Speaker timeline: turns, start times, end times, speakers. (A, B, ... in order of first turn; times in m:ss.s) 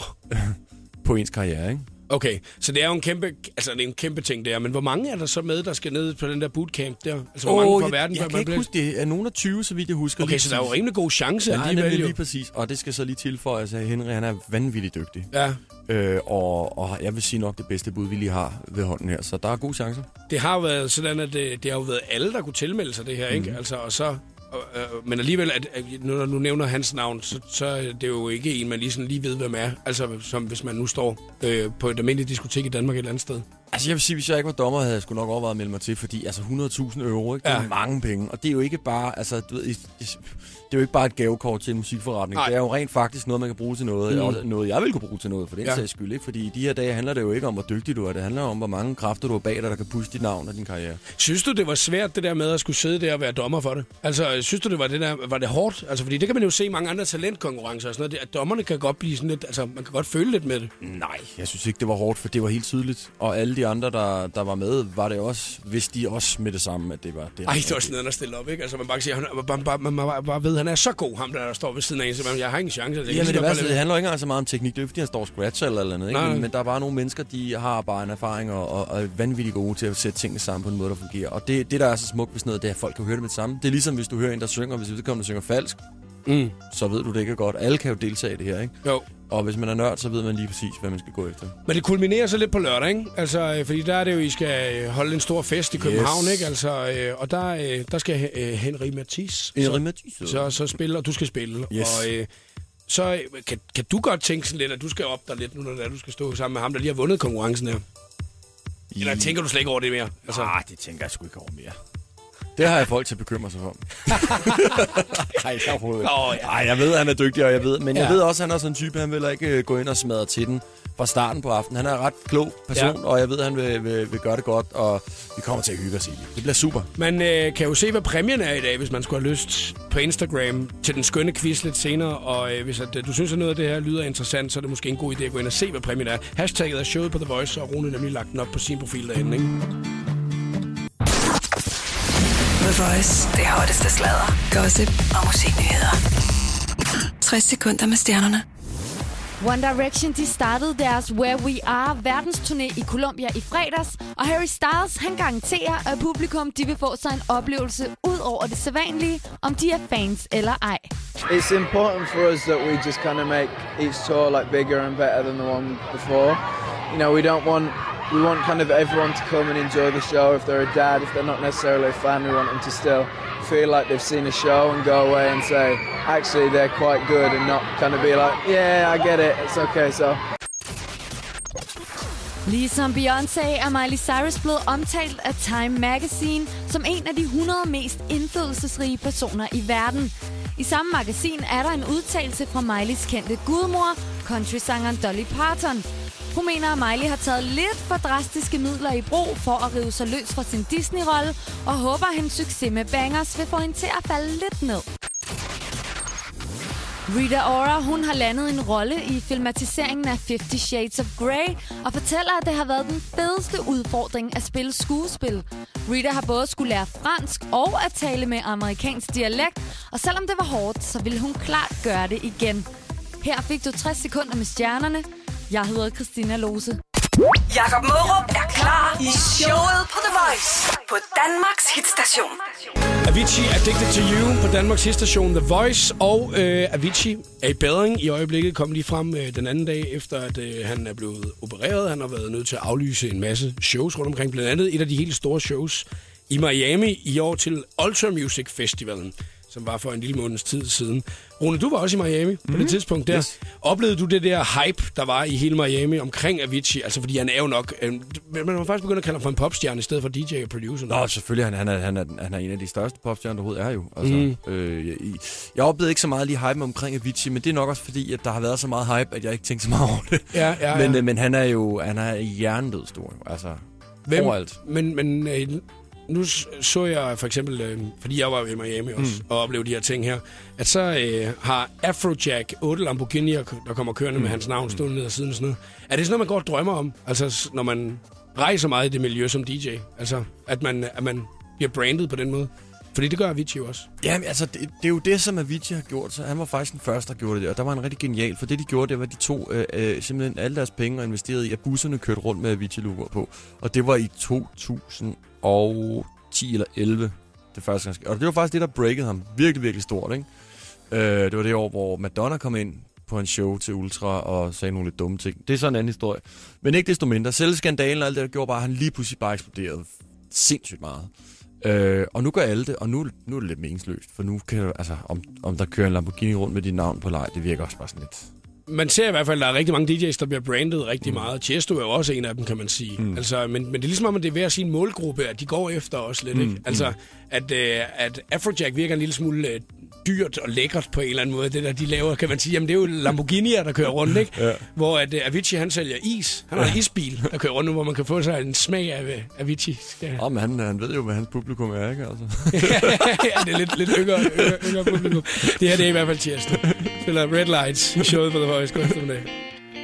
0:00.3-0:01.9 A
0:02.1-0:08.7 B
0:07.4-0:10.8 A
0:10.2-0:12.2 B
0:11.5-0:15.3 A
0:15.3-0:15.6 B
0:15.9-0:20.1 A
0:20.3-0:33.4 B
0:23.3-0:23.6 A
0:33.7-0:51.0 A
0:37.4-0:37.7 B
0:44.1-0:44.4 B
0:51.2-1:00.7 B
1:00.8-1:08.0 A
1:07.5-1:13.8 B
1:13.1-1:25.8 A
1:16.1-1:16.5 B
1:26.3-1:26.6 B
1:26.7-1:31.6 A
1:31.7-1:42.3 B
1:35.7-1:36.5 A
1:39.6-1:40.6 A
1:41.7-1:42.1 A
1:42.9-1:47.8 B
1:48.9-1:49.4 A
1:49.0-1:50.5 B
1:50.3-1:51.8 A
1:52.6-2:06.9 A
1:54.1-1:54.6 B
1:56.0-1:56.6 B
1:57.9-1:58.2 B
2:07.0-2:19.6 B
2:22.6-2:26.0 C
2:27.2-2:28.4 C
2:29.4-2:40.9 D
2:41.3-3:00.2 E
3:02.5-3:24.8 D
3:27.1-3:42.7 D
3:43.2-3:46.8 D
3:47.5-3:52.5 C
3:53.0-4:21.0 B
4:12.5-4:13.4 A
4:20.9-4:34.6 A
4:24.0-4:24.4 B
4:30.3-4:31.0 B
4:34.1-4:53.9 B
4:39.0-4:39.2 A
4:44.2-4:44.8 A
4:54.0-5:10.3 A
5:10.9-5:21.1 A
5:21.6-5:28.3 A
5:28.7-5:50.2 B
5:33.0-5:33.2 A
5:36.3-5:36.9 A
5:44.3-5:44.6 A
5:50.2-5:55.5 A
5:52.5-5:59.3 B